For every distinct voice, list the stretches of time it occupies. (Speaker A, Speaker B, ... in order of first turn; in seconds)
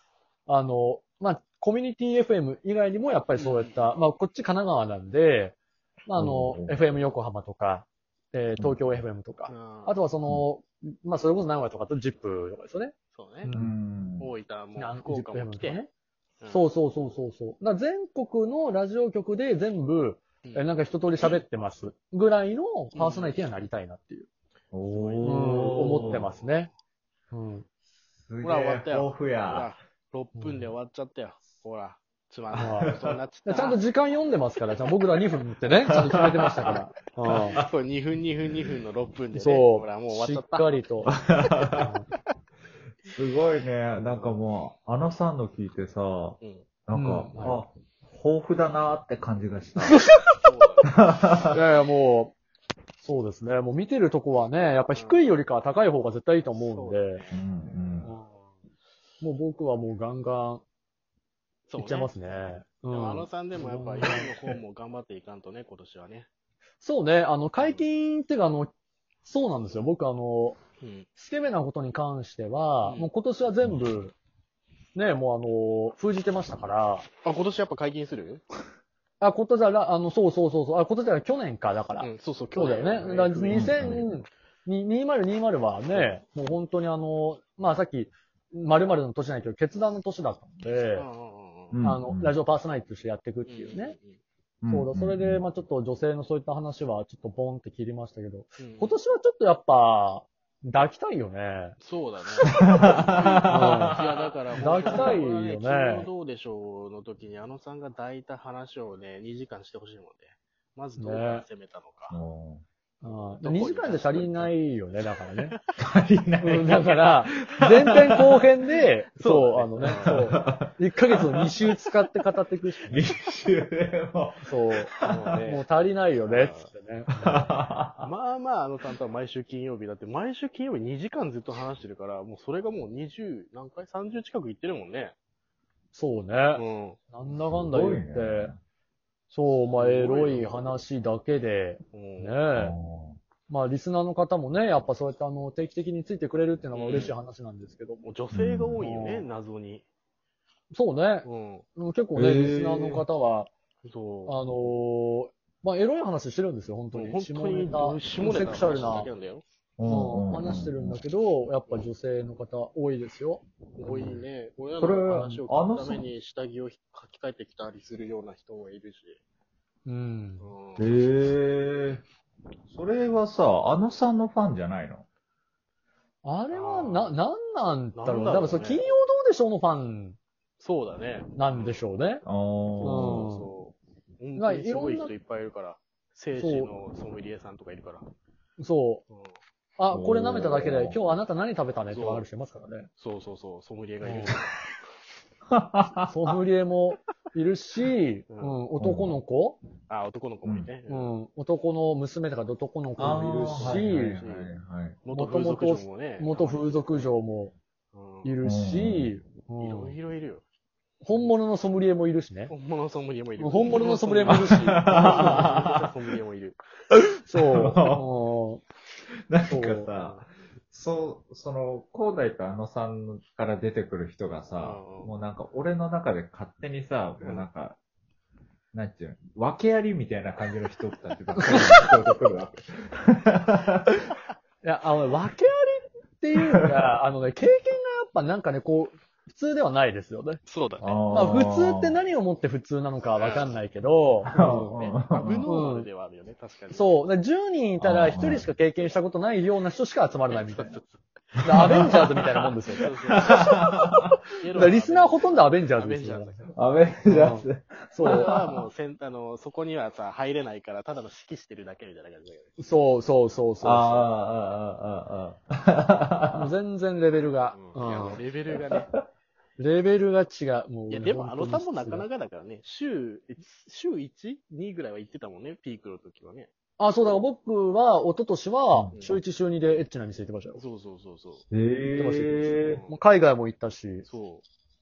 Speaker A: 0.5-13.8, 14.8-15.9, 16.5-24.3, 25.2-26.7, 27.3-27.6, 30.4-30.7, 32.5-32.9, 33.4-37.6, 39.3-41.1, 41.8-42.1, 46.9-47.6, 49.8-50.4, 51.5-52.3, 53.0-57.2, 58.0-58.3, 59.2-60.6, 61.8-64.5, 66.8-68.7, 69.2-70.6, 71.2-74.1, 74.9-77.1, 79.2-91.0, 91.8-93.9, 94.7-101.8, 103.5-104.0, 104.5-106.1, 111.0-111.4, 113.0-115.5, 116.4-123.1, 124.4-127.6, 135.9-138.5, 139.3-142.7, 143.5-148.0, 148.8-149.3, 150.7-153.5, 154.2-159.1, 159.8-163.4, 165.1-165.4, 169.8-170.5, 176.2-180.2, 181.3-182.2, 182.8-183.5, 184.3-185.1, 186.3-186.7, 188.6-189.0, 189.8-192.9, 194.0-194.4, 196.1-199.6, 200.9-204.2, 205.1-207.5, 208.2-210.0, 211.0-212.5, 213.4-215.6, 217.2-218.6, 219.5-219.9, 231.3-231.9, 234.6-240.4, 241.1-244.8, 245.4-245.9, 246.7-250.8, 251.4-252.9, 254.5-256.5, 257.0-258.3, 262.6-264.1, 266.3-268.2, 269.6-272.1, 276.8-280.6, 281.9-284.0
Speaker B: 3.3-3.7, 9.5-10.0, 13.1-13.5, 14.2-15.8, 16.4-16.7, 22.9-23.4, 24.9-26.7, 28.4-33.8, 37.5-41.3, 43.9-44.4, 46.4-46.6, 50.4-50.9, 54.9-55.3, 56.5-58.1, 61.7-62.2, 62.9-66.3, 67.6-67.8, 70.8-71.1, 72.8-73.1, 77.2-78.4, 82.0-84.1, 90.9-91.8, 93.5-94.2, 98.6-99.0, 101.8-112.2, 113.4-114.5, 119.2-120.4, 125.0-125.7, 126.2-126.7, 128.0-135.1, 136.5-137.0, 139.7-140.8, 141.9-142.4, 146.7-147.2, 148.0-149.8, 151.2-151.7, 153.8-154.4, 156.9-159.4, 163.8-169.2, 170.4-171.0, 176.5-177.1, 177.9-178.8, 180.6-181.8, 182.7-188.1, 189.1-189.4, 191.9-192.3, 193.0-194.5, 198.3-198.6, 199.9-201.1, 203.5-207.1, 207.9-208.4, 209.6-210.4, 212.5-216.6, 219.9-220.3, 224.6-225.1, 227.2-227.4, 240.4-241.0, 243.1-243.5, 244.4-247.0, 250.3-251.0, 252.8-253.5, 254.4-256.5, 258.0-262.6, 267.5-269.0, 270.9-276.5, 278.9-279.2, 280.6-281.4, 282.5-283.0, 284.0-284.4
Speaker C: 6.1-6.8, 13.5-14.3, 24.7-26.3, 28.2-29.7, 37.3-37.6, 41.4-41.9, 43.1-50.0, 51.0-51.6, 57.3-58.1, 83.5-84.0, 91.7-92.4, 94.6-95.4, 102.6-105.2, 112.1-112.6, 115.8-118.3, 119.8-121.7, 122.9-125.2, 127.2-128.1, 137.3-138.6, 142.5-143.2, 148.3-148.8, 152.1-153.1, 159.8-161.0, 163.9-164.2, 164.8-166.1, 170.8-172.0, 172.7-175.0, 182.2-183.3, 189.9-191.0, 195.5-196.1, 198.8-199.2, 200.4-200.7, 203.0-205.0, 208.4-209.1, 214.7-215.8, 217.3-218.1, 219.3-227.8, 228.7-233.8, 240.8-242.0, 244.2-245.4, 247.8-248.5, 251.5-252.1, 253.2-254.1, 256.5-258.7, 263.6-266.5, 281.5-282.8